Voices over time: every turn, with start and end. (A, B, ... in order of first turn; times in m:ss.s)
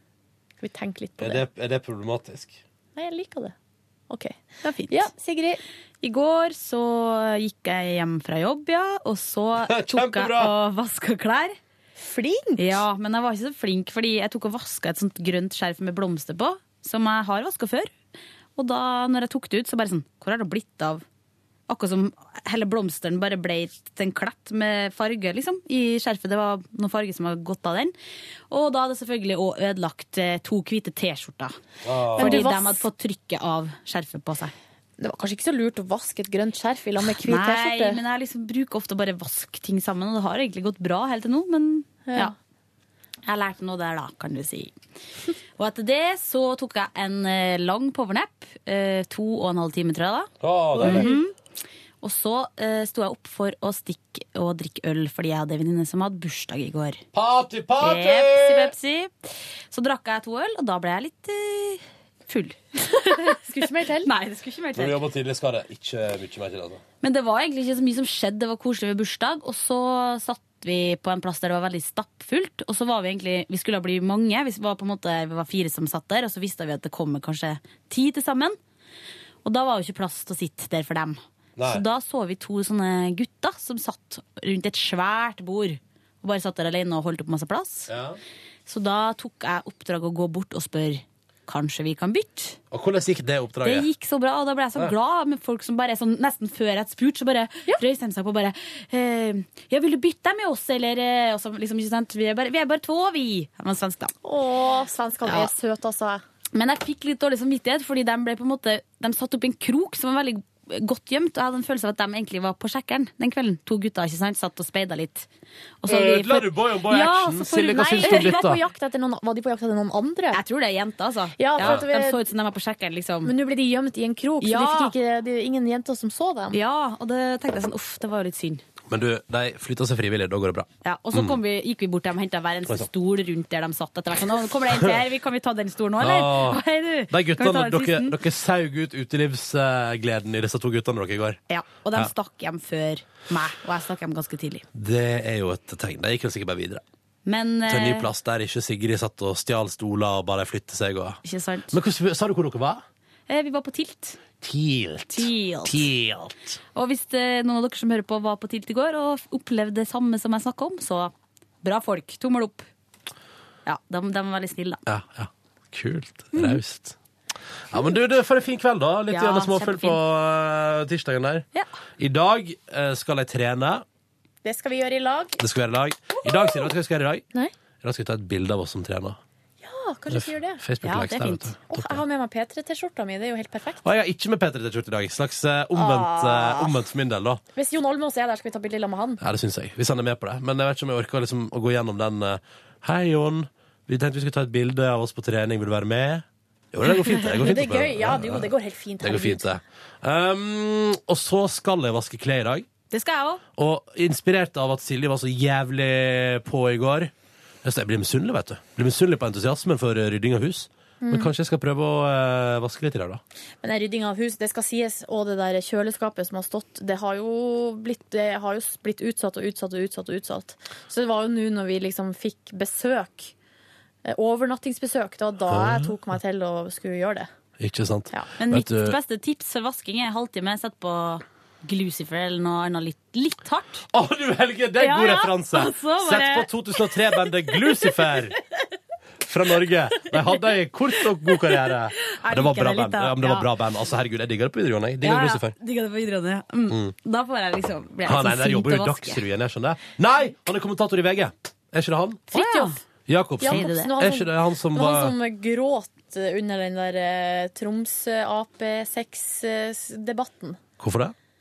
0:00.6-0:01.5 A
0:01.2-0:02.6 B
0:03.0-0:03.6 A
0:04.1-0:05.6 A
0:04.6-0:05.1 C
0:06.0-0:11.6 C
0:09.7-0:10.5 B
0:12.0-0:12.8 A
0:12.6-0:17.9 C
0:18.6-0:21.0 C
0:21.7-0:27.9 C
0:28.5-0:31.6 C
0:31.8-0:32.4 B
0:32.2-0:34.5 C
0:32.2-0:32.8 A
0:35.0-0:38.0 A
0:37.1-0:42.3 C
0:42.1-0:42.3 A
0:43.3-0:44.7 C
0:45.6-0:51.3 C
0:50.4-0:51.1 B
0:50.8-0:51.2 A
0:52.0-0:57.0 C
0:57.1-0:58.7 B
0:57.8-1:05.0 C
1:03.0-1:04.1 A
1:04.8-1:06.8 B
1:07.0-1:18.6 C
1:19.4-1:27.9 C
1:21.6-1:21.8 B
1:27.9-1:28.2 B
1:28.7-1:32.6 C
1:32.7-1:33.9 B
1:33.6-1:44.1 C
1:44.2-1:46.2 A
1:45.2-1:45.5 C
1:46.5-1:55.3 C
1:55.8-1:57.1 C
1:55.9-1:58.6 B
1:56.9-2:00.4 A
1:58.0-1:58.5 C
2:00.3-2:03.3 C
2:01.4-2:02.2 A
2:03.2-2:06.6 A
2:04.4-2:05.0 C
2:06.5-2:08.6 C
2:08.9-2:11.4 B
2:10.8-2:18.2 C
2:16.0-2:21.4 B
2:21.5-2:24.6 C
2:24.7-2:26.8 B
2:27.3-2:28.1 C
2:27.7-2:31.2 B
2:31.2-2:31.8 C
2:31.7-2:32.8 B
2:33.3-2:34.2 C
2:34.4-2:36.6 B
2:35.1-2:35.9 C
2:36.7-2:42.7 C
2:43.7-2:44.8 C
2:44.9-2:47.0 B
2:46.3-2:46.6 C
2:47.7-2:51.4 B
2:49.1-2:50.0 C
2:52.0-2:53.8 B
2:54.4-2:55.4 A
2:55.4-2:57.3 B
2:57.8-2:59.2 B
2:59.6-3:03.8 A
3:00.1-3:02.0 B
3:00.8-3:01.5 C
3:03.8-3:07.4 B
3:05.8-3:06.8 A
3:07.5-3:09.2 A
3:09.2-3:18.5 B
3:17.2-3:19.5 A
3:19.0-3:22.7 B
3:22.9-3:23.4 C
3:23.6-3:27.1 B
3:27.6-3:33.2 B
3:31.0-3:31.3 A
3:33.6-3:43.3 A
3:44.0-3:47.3 A
3:45.5-3:45.9 B
3:47.6-3:49.0 B
3:48.4-3:53.8 C
3:53.9-3:58.4 B
3:54.8-3:58.4 C
3:59.2-4:05.6 B
4:00.0-4:03.5 C
4:05.0-4:09.2 C
4:08.0-4:12.3 B
4:12.3-4:12.8 C
4:12.3-4:12.8 A
4:13.1-4:15.2 B
4:13.4-4:20.6 A
4:13.4-4:13.9 C
4:20.8-4:21.2 B